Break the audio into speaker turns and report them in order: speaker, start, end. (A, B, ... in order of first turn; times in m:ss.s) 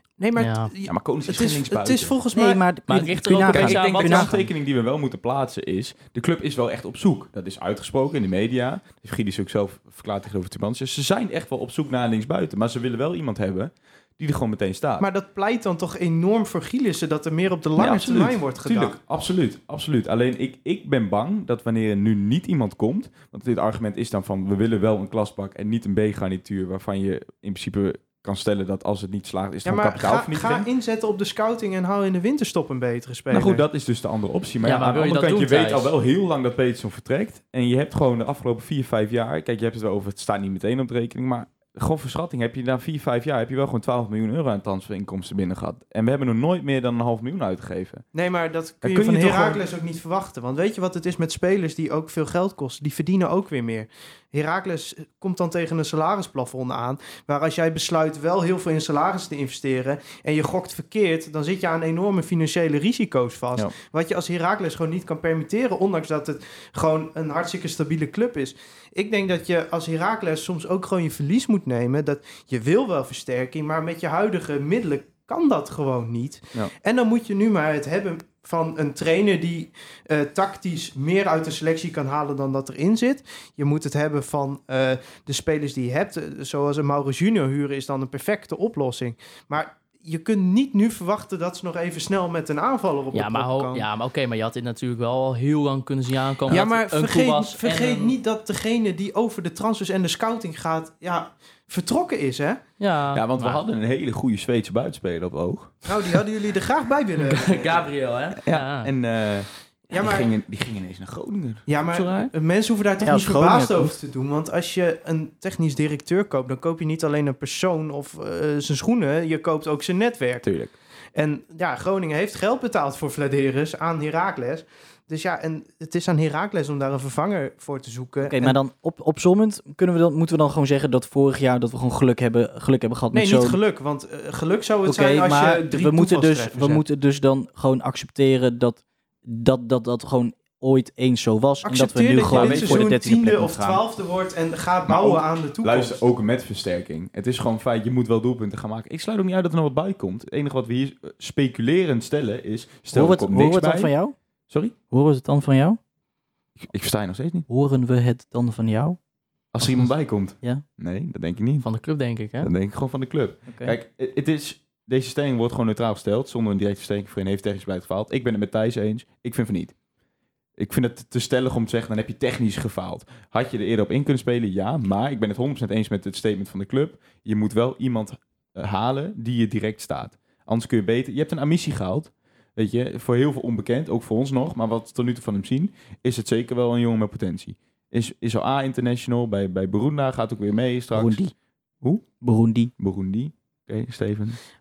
0:00.2-0:02.6 A
0:00.4-0:00.7 B
0:00.8-0:02.2 C
0:02.3-0:04.3 D
0:02.9-0:04.4 B
0:03.5-0:15.1 C
0:15.0-0:19.0 A
0:17.8-0:30.7 C
0:29.6-0:33.6 A
0:33.3-0:48.1 C
0:34.6-0:35.9 B
0:48.1-1:33.9 A
0:48.8-0:49.6 C
1:33.1-1:38.2 B
1:36.5-1:42.6 A
1:42.8-1:43.6 B
1:43.1-1:46.2 C
1:45.9-1:47.8 A
1:47.2-1:48.9 B
1:48.4-1:52.3 C
1:49.9-1:50.3 A
1:51.7-2:00.5 A
1:53.0-1:54.0 D
2:00.4-2:00.7 C
2:01.1-2:08.6 A
2:08.2-2:13.6 D
2:13.1-2:16.8 A
2:14.8-2:23.8 D
2:21.6-2:26.0 A
2:22.2-2:23.0 C
2:24.9-2:33.9 C
2:32.9-2:34.2 D
2:34.5-2:34.7 C
2:34.9-2:35.8 D
2:36.6-2:37.5 C
2:37.5-2:39.0 D
2:39.5-2:49.8 C
2:41.6-2:42.5 B
2:43.5-2:43.8 D
2:50.6-3:12.1 C
3:10.9-3:11.3 D
3:12.2-3:12.7 D
3:12.8-3:14.4 C